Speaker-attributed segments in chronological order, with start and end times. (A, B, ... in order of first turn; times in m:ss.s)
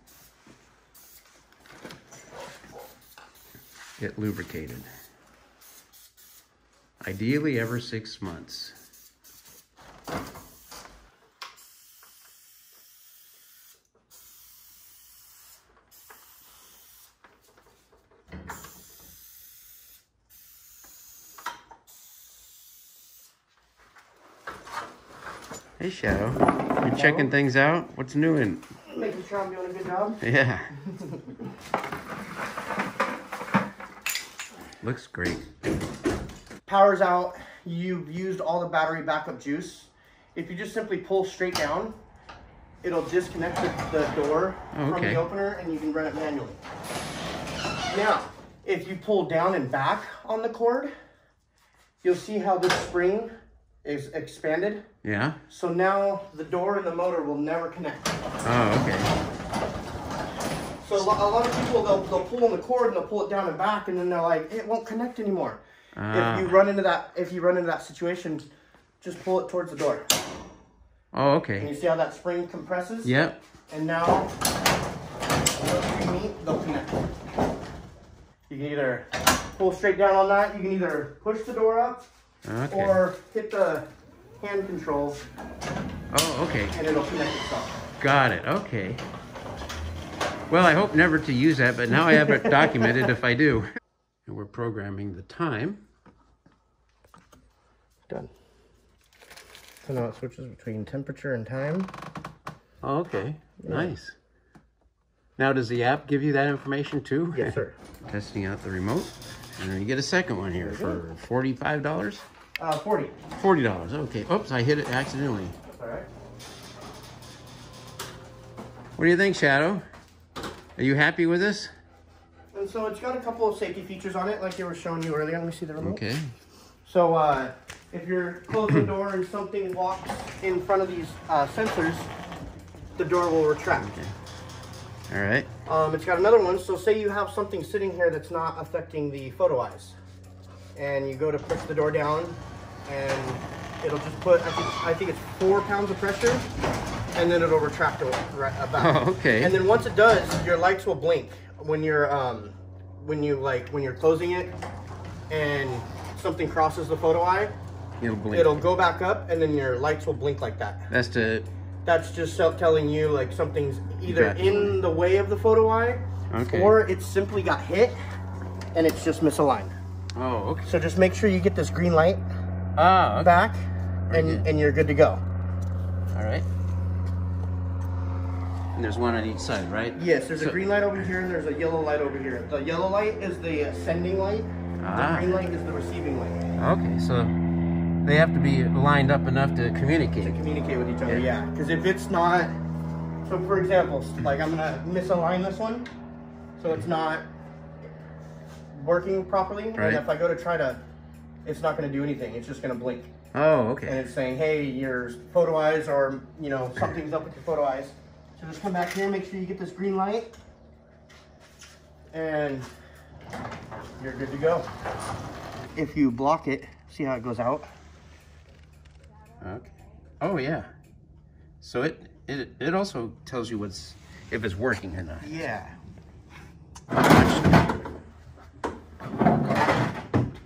0:04.0-0:04.9 A
0:07.0-0:08.8 A
0:25.8-0:28.7 A
0:26.8-0:27.3 B
0:28.9-0:30.2 B
0:30.2-0:30.7 A
0:30.8-0:31.5 B
0:34.8-0:35.5 A
0:36.6-0:42.0 B
0:42.8-0:46.6 B
0:44.7-0:45.2 A
0:47.9-0:50.9 B
0:52.0-0:53.3 B
0:53.8-0:54.9 B
0:55.0-0:55.4 A
0:55.5-0:58.2 B
0:58.4-0:59.1 A
1:00.8-1:08.5 B
1:06.0-1:06.6 A
1:09.0-1:10.1 B
1:11.1-1:11.7 A
1:11.6-1:13.2 B
1:13.0-1:13.4 A
1:13.7-1:14.3 B
1:15.6-1:17.1 B
1:18.5-1:22.1 B
1:22.4-1:23.0 A
1:22.7-1:23.9 B
1:24.4-1:25.2 B
1:26.1-1:26.8 A
1:26.7-1:27.8 B
1:28.0-1:29.0 A
1:30.5-1:33.7 A
1:31.9-1:33.1 B
1:34.3-1:35.8 A
1:39.8-1:41.9 B
1:42.8-1:44.2 A
1:43.6-1:43.9 B
1:45.4-1:52.2 A
1:47.3-1:47.8 B
1:50.6-1:51.0 B
1:52.6-1:53.2 B
1:53.4-1:55.6 A
1:55.7-1:56.1 B
1:59.0-1:59.8 A
2:00.8-2:01.7 A
2:02.5-2:06.0 B
2:05.8-2:06.3 A
2:06.8-2:12.1 B
2:13.0-2:13.9 B
2:13.8-2:14.1 A
2:15.1-2:15.5 A
2:15.6-2:20.0 B
2:20.8-2:26.5 B
2:27.1-2:34.6 B
2:28.8-2:29.6 A
2:35.3-2:37.5 B
2:38.0-2:38.7 A
2:38.3-2:40.9 B
2:40.9-2:41.5 A
2:41.8-2:48.0 B
2:44.1-2:44.8 A
2:46.3-2:46.8 A
2:48.7-2:49.8 B
2:50.2-2:50.8 A
2:50.6-2:52.2 B
2:52.8-2:53.3 A
2:53.1-2:55.2 B
2:54.1-2:54.5 A
2:56.1-2:56.5 A
2:58.8-3:00.6 A
3:00.0-3:06.4 B
3:04.8-3:05.4 A
3:06.6-3:07.4 A
3:08.0-3:10.4 A
3:10.2-3:12.5 B
3:13.2-3:15.9 B
3:16.6-3:17.3 B
3:18.7-3:20.8 B
3:19.8-3:20.0 A
3:21.4-3:23.1 B
3:23.3-3:24.1 A
3:23.9-3:30.4 B
3:32.1-3:32.7 B
3:34.0-3:34.7 B
3:35.8-3:37.7 B
3:39.4-3:40.7 A
3:41.6-3:45.4 A
3:45.2-3:45.8 B
3:46.9-3:47.9 A